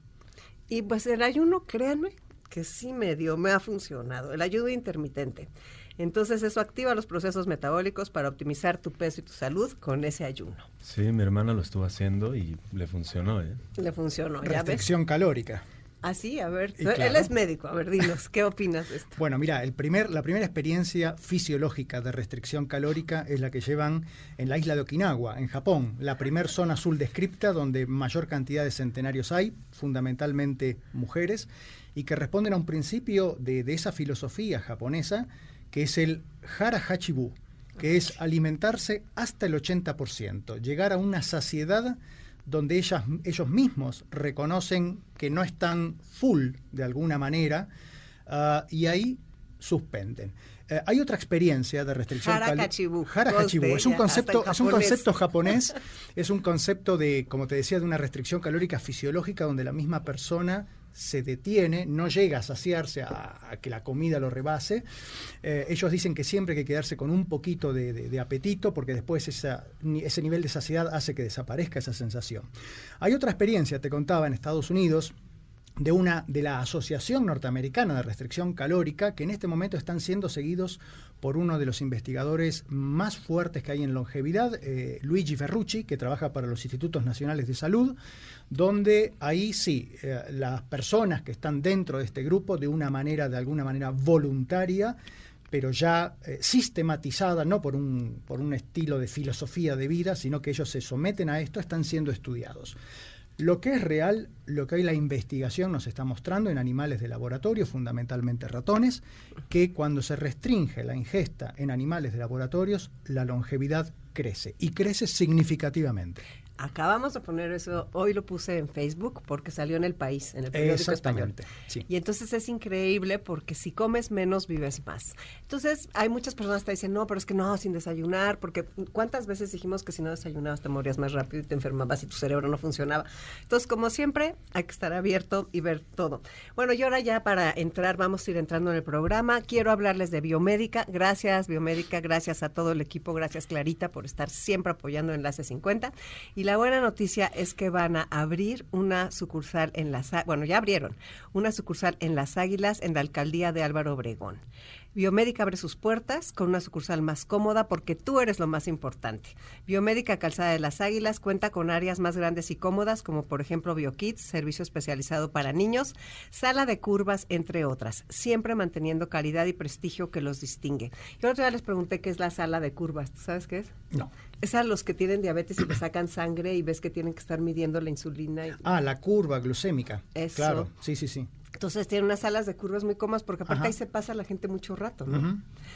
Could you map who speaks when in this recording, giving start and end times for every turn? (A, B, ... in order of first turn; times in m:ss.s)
0:00.7-0:10.7 A
0:10.8-0:13.6 B
0:13.8-0:14.8 A
0:14.4-0:15.6 C
0:16.0-0:19.2 A
0:16.8-0:17.3 C
0:19.2-0:47.7 C
0:48.3-1:04.8 C
0:52.2-0:55.1 A
1:05.4-1:15.1 C
1:15.8-1:28.0 C
1:28.5-1:35.0 C
1:35.5-1:42.8 C
1:43.4-1:56.2 C
1:56.6-2:01.4 A
2:00.5-2:01.9 C
2:01.9-2:34.4 A
2:35.0-2:53.8 A
2:54.4-2:58.6 A
2:58.6-3:01.3 C
3:00.2-3:00.7 A
3:01.6-3:05.3 A
3:03.5-3:03.7 C
3:05.1-3:05.4 C